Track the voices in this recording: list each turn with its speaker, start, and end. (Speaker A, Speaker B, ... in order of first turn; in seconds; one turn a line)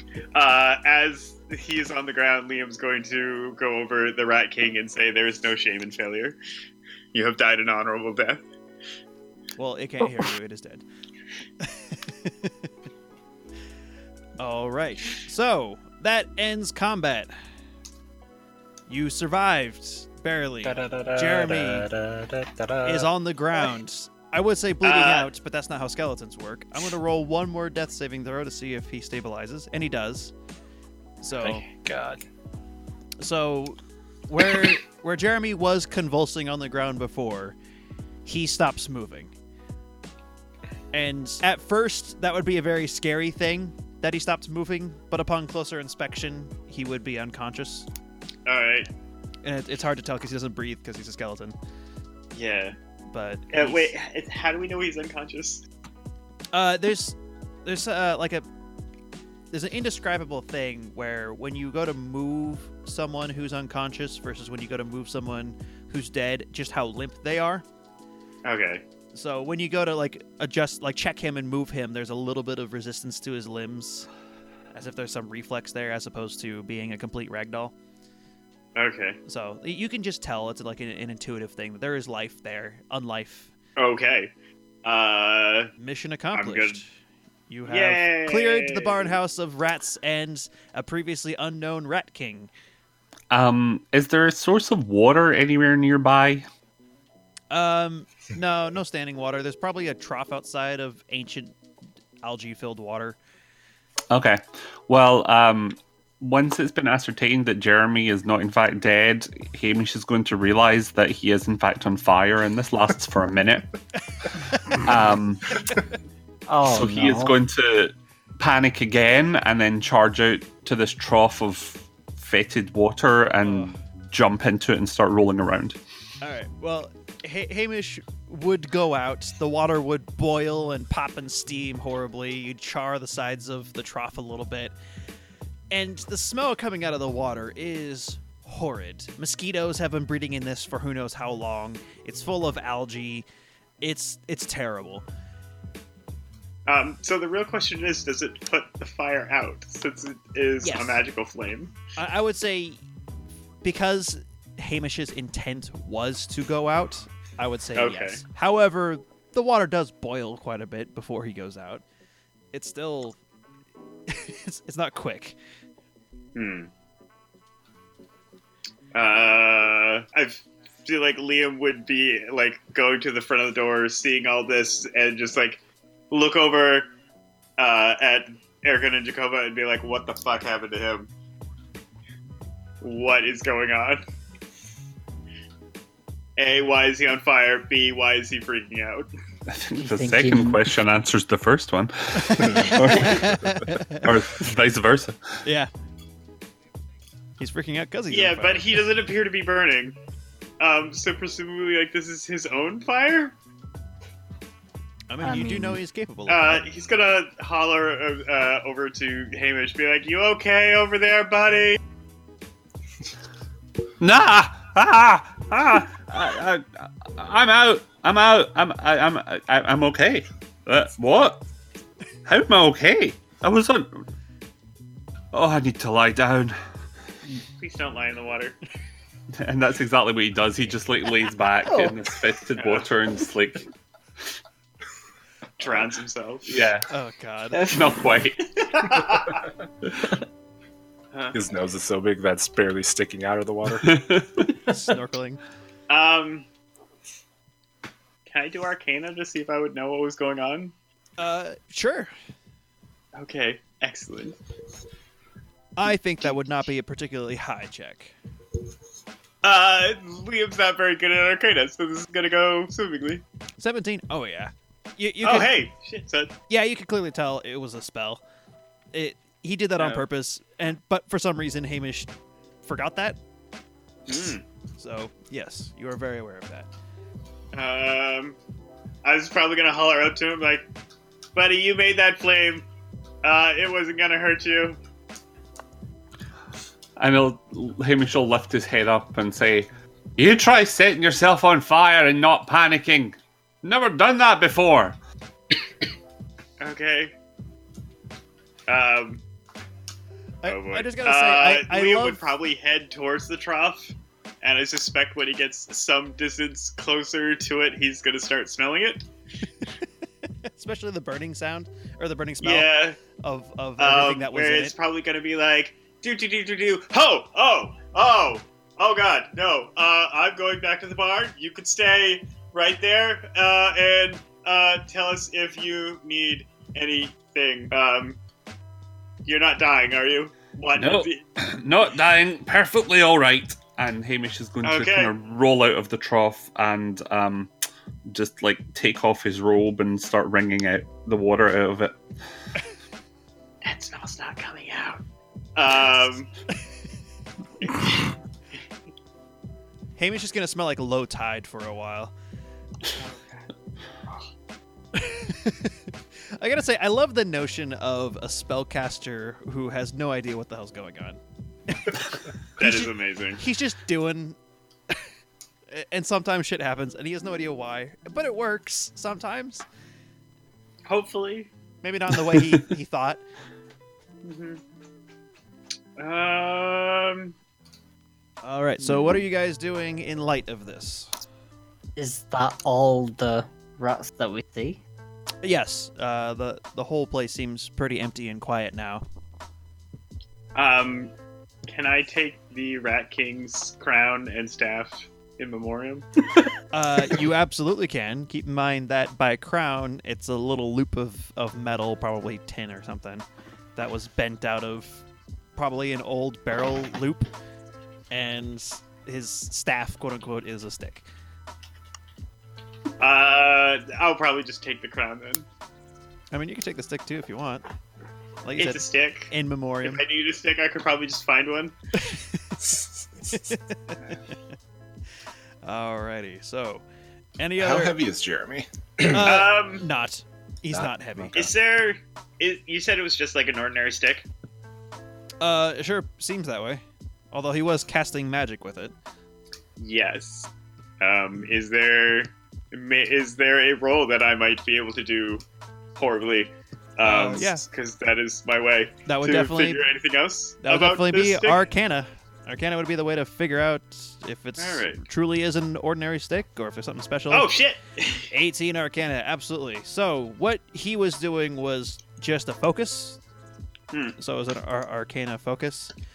Speaker A: 0.3-6.4
Speaker A: 7.1-8.4
Speaker B: 9.6-10.8
Speaker B: 11.6-12.7
Speaker B: 14.4-17.3
Speaker B: 18.9-21.9
Speaker C: 20.6-23.1
Speaker B: 22.8-30.3
Speaker A: 24.8-25.3
Speaker B: 31.2-31.6
Speaker C: 31.4-32.2
Speaker B: 33.2-37.5
Speaker B: 38.2-39.3
Speaker B: 40.9-47.9
Speaker A: 48.5-48.9
Speaker B: 49.4-51.5
Speaker A: 52.3-52.7
Speaker B: 53.1-53.9
Speaker A: 53.5-55.6
Speaker B: 56.5-58.5
Speaker B: 59.5-67.6
Speaker A: 68.4-68.8
Speaker B: 69.1-74.1
Speaker B: 74.7-77.7
Speaker A: 78.8-79.2
Speaker B: 79.3-83.5
Speaker A: 83.8-84.3
Speaker A: 84.8-85.7
Speaker B: 85.8-86.9
Speaker A: 86.3-86.8
Speaker B: 87.5-92.5
Speaker A: 87.7-89.2
Speaker D: 93.3-96.4
Speaker B: 97.5-101.6
Speaker B: 102.2-103.2
Speaker D: 104.1-113.7
Speaker B: 114.2-114.8
Speaker D: 114.6-115.8
Speaker E: 116.5-117.4
Speaker D: 116.6-125.8
Speaker B: 123.4-123.8
Speaker B: 126.2-134.7
Speaker B: 135.7-143.2
Speaker B: 143.8-145.0
Speaker A: 146.7-151.7
Speaker B: 150.6-151.0
Speaker B: 151.9-152.8
Speaker B: 153.6-161.8
Speaker A: 157.8-158.2
Speaker B: 162.5-163.2
Speaker B: 164.1-165.3
Speaker A: 166.3-166.7
Speaker A: 168.9-176.9
Speaker A: 177.6-181.1
Speaker A: 182.8-184.0
Speaker A: 186.4-189.1
Speaker D: 189.5-195.3
Speaker E: 189.8-190.7
Speaker B: 192.1-194.1
Speaker B: 195.4-195.7
Speaker B: 197.4-198.7
Speaker A: 198.1-200.0
Speaker A: 200.6-203.3
Speaker B: 205.1-206.7
Speaker E: 205.2-205.8
Speaker A: 206.3-211.8
Speaker D: 214.0-221.4
Speaker D: 222.2-224.0
Speaker D: 225.3-226.6
Speaker A: 227.4-228.6
Speaker D: 229.4-233.7
Speaker A: 232.6-232.9
Speaker A: 235.6-236.6
Speaker D: 236.4-236.9
Speaker B: 236.9-237.7
Speaker E: 237.6-237.9
Speaker D: 237.6-239.0
Speaker A: 238.7-239.4
Speaker A: 241.1-241.4
Speaker C: 241.3-244.0
Speaker D: 243.8-244.5
Speaker B: 244.6-245.4
Speaker A: 245.9-246.5
Speaker A: 248.3-250.7
Speaker B: 251.2-252.1
Speaker A: 253.1-254.4
Speaker B: 255.8-258.1
Speaker A: 259.4-263.2
Speaker B: 263.6-265.6
Speaker A: 265.2-266.3
Speaker B: 266.5-268.2
Speaker B: 268.9-272.1
Speaker A: 269.8-270.1
Speaker B: 272.6-273.2
Speaker A: 274.1-274.4
Speaker B: 274.8-276.7
Speaker A: 277.5-278.4
Speaker A: 279.0-280.6
Speaker A: 281.3-282.6
Speaker A: 283.2-284.8
Speaker D: 287.0-294.9
Speaker A: 296.6-297.1
Speaker A: 298.7-299.2
Speaker B: 300.4-302.3
Speaker A: 300.4-309.1
Speaker B: 310.4-314.7
Speaker A: 312.4-313.0
Speaker A: 313.8-328.2
Speaker A: 329.2-331.2
Speaker D: 330.8-337.5
Speaker A: 334.6-335.1
Speaker D: 338.1-341.9
Speaker A: 343.6-345.0
Speaker A: 345.6-346.3
Speaker A: 347.6-348.2
Speaker B: 350.0-352.1
Speaker A: 352.9-353.5
Speaker B: 354.9-364.4
Speaker A: 362.6-363.4
Speaker B: 365.7-369.6
Speaker A: 370.9-371.5
Speaker B: 371.8-373.2
Speaker D: 372.4-372.6
Speaker A: 374.2-374.6
Speaker A: 376.0-377.3
Speaker B: 378.4-381.1
Speaker A: 378.8-379.2
Speaker E: 381.9-384.8
Speaker B: 385.4-389.0
Speaker A: 390.5-391.1
Speaker A: 391.7-396.1
Speaker B: 396.7-403.2
Speaker B: 403.8-405.0
Speaker B: 405.6-407.3
Speaker B: 408.1-411.1
Speaker A: 413.0-415.4
Speaker B: 416.3-417.6
Speaker B: 418.4-420.0
Speaker A: 418.6-419.3
Speaker A: 419.8-421.8
Speaker B: 421.9-424.3
Speaker B: 425.6-426.8
Speaker B: 427.4-428.0
Speaker C: 427.6-429.3
Speaker B: 429.0-431.5
Speaker A: 429.2-429.8
Speaker C: 430.7-431.4
Speaker A: 431.3-434.3
Speaker B: 435.4-438.9
Speaker A: 439.8-440.5
Speaker A: 441.0-445.4
Speaker A: 445.9-451.7
Speaker B: 447.0-447.6
Speaker B: 449.1-449.8
Speaker B: 450.6-457.5
Speaker A: 454.6-455.0
Speaker A: 457.3-458.3
Speaker B: 458.3-463.2
Speaker B: 464.2-465.9